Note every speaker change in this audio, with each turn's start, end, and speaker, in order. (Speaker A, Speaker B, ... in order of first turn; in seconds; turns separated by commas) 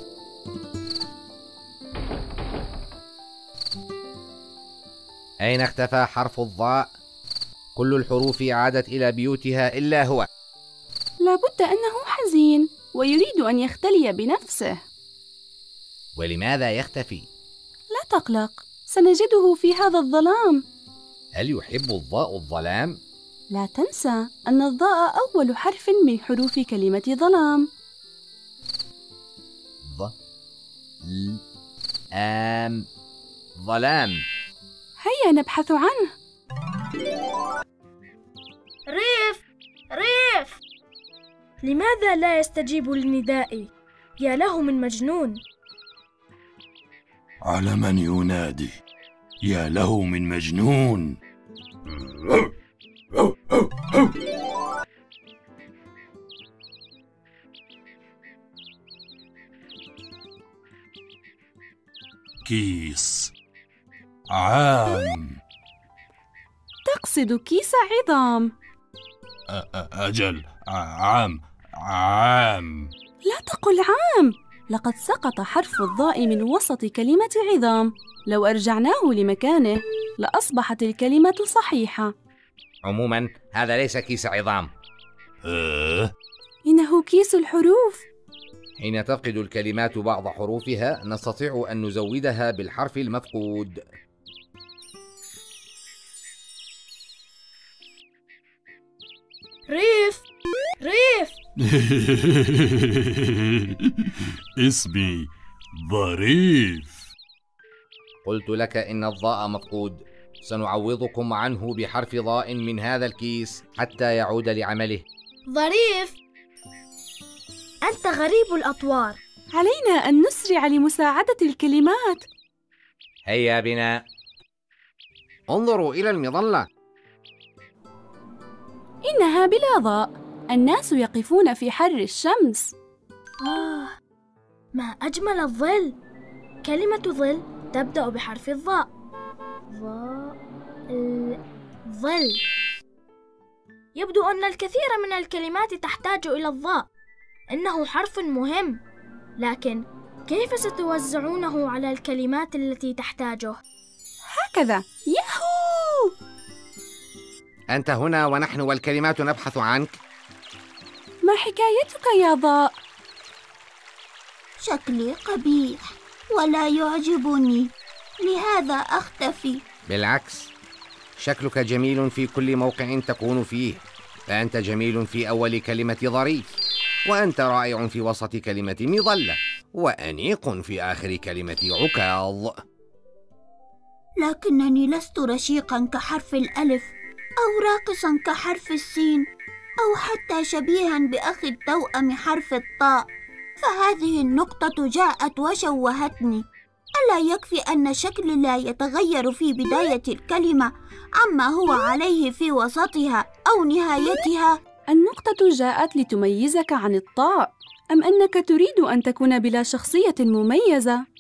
Speaker A: 5.4-6.9, Speaker A: 7.8-10.3, Speaker B: 11.2-14.8, Speaker A: 16.2-17.3, Speaker B: 17.9-20.6, Speaker A: 21.4-23.0, Speaker B: 23.5-27.7, Speaker A: 29.9-30.1, Speaker A: 31.0-31.4, Speaker A: 32.2-32.9, Speaker A: 33.6-34.3, Speaker B: 35.0-36.1, Speaker C: 38.9-40.6, Speaker C: 41.6-45.4, Speaker D: 47.4-48.8, Speaker D: 49.4-51.2, Speaker D: 52.0-52.5, Speaker D: 53.2-54.1, Speaker D: 62.5-63.3, Speaker D: 64.3-65.4, Speaker B: 66.8-68.5, Speaker D: 69.5-72.9, Speaker B: 73.2-82.1, Speaker A: 82.8-84.7, Speaker D: 85.5-86.1, Speaker B: 86.7-88.0, Speaker A: 88.8-93.8, Speaker C: 99.7-100.2, Speaker C: 100.8-101.3, Speaker D: 101.8-103.7, Speaker D: 104.6-107.1, Speaker A: 108.2-115.0, Speaker C: 115.5-116.2, Speaker C: 117.8-119.2, Speaker B: 119.5-122.2, Speaker A: 123.3-124.0, Speaker A: 125.5-126.7, Speaker B: 129.1-132.7, Speaker C: 133.4-133.9, Speaker C: 134.7-135.9, Speaker C: 136.6-138.9, Speaker C: 139.7-140.4, Speaker C: 140.9-142.4, Speaker C: 144.0-146.9, Speaker C: 147.5-148.8, Speaker C: 149.4-153.6, Speaker B: 154.3-156.1, Speaker A: 157.7-160.0, Speaker B: 161.2-162.8, Speaker E: 164.6-167.7, Speaker E: 168.2-169.6, Speaker A: 169.9-170.5, Speaker A: 171.2-182.6, Speaker E: 184.2-189.2, Speaker E: 189.8-193.0, Speaker E: 193.6-196.4, Speaker E: 197.0-204.6, Speaker B: 204.9-211.0